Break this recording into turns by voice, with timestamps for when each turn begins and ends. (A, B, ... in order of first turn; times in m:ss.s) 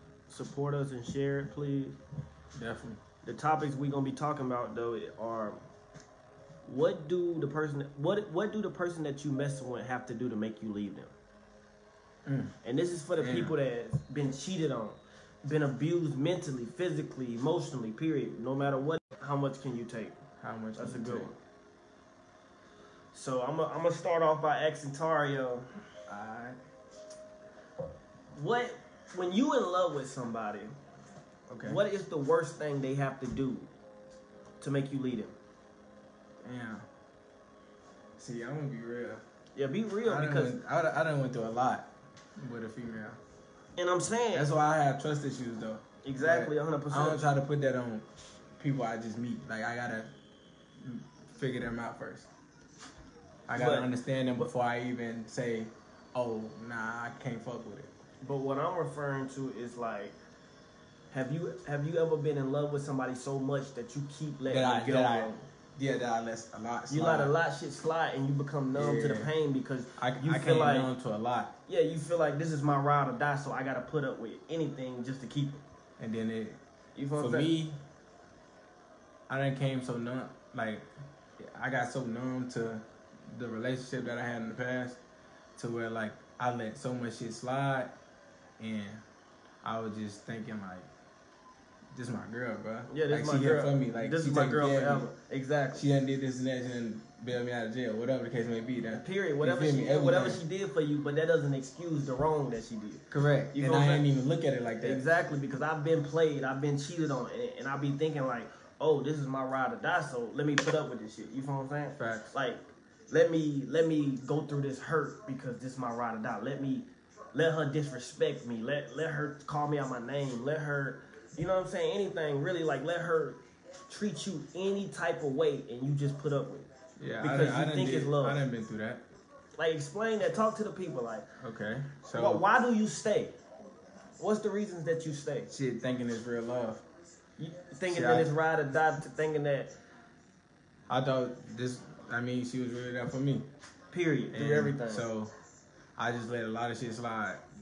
0:00.3-0:02.0 A
0:02.5-0:03.0 B
0:03.2-0:05.6 A
0:06.6-0:11.1 A
0:12.2-0:12.5 B
0:12.6-0:20.2 A
0:13.2-0:13.5 B
0:20.4-0:21.3 B
0:20.8-0:21.4 A
0:23.1-0:25.6 A
0:26.1-0:26.6 B
0:28.3-0:30.7 A
0:31.5-0:31.8 B
0:31.7-0:33.7 A
0:34.6-0:35.3 A
0:36.4-0:36.8 B
0:38.2-0:39.2 B
0:39.6-0:40.5 A
0:40.0-0:41.9 B
0:42.4-0:43.2 B
0:43.8-0:44.5 A
0:44.3-0:48.0 B
0:46.0-0:47.2 A
0:48.6-0:50.1 B
0:50.8-0:52.3 B
0:53.5-0:57.9 B
0:53.5-0:54.5 A
0:58.2-1:00.2 A
1:01.1-1:05.4 A
1:04.5-1:07.3 B
1:06.9-1:10.9 A
1:08.7-1:09.3 B
1:10.0-1:11.5 B
1:11.7-1:15.6 A
1:16.0-1:16.6 B
1:17.0-1:17.5 A
1:17.2-1:17.8 B
1:19.3-1:20.9 B
1:21.4-1:25.0 B
1:25.6-1:27.9 B
1:28.6-1:29.0 B
1:29.6-1:30.9 B
1:31.9-1:35.1 B
1:32.9-1:35.8 A
1:35.7-1:40.4 B
1:38.9-1:44.0 A
1:43.1-1:45.0 B
1:44.8-2:06.7 A
1:52.0-1:52.3 B
2:07.0-2:09.0 B
2:07.2-2:08.4 A
2:09.6-2:11.2 A
2:11.4-2:12.4 B
2:12.1-2:13.4 A
2:14.2-2:15.5 A
2:15.5-2:16.8 B
2:17.4-2:19.7 A
2:17.9-2:18.3 B
2:20.9-2:23.4 B
2:23.9-2:25.0 A
2:24.3-2:25.3 B
2:26.0-2:27.4 B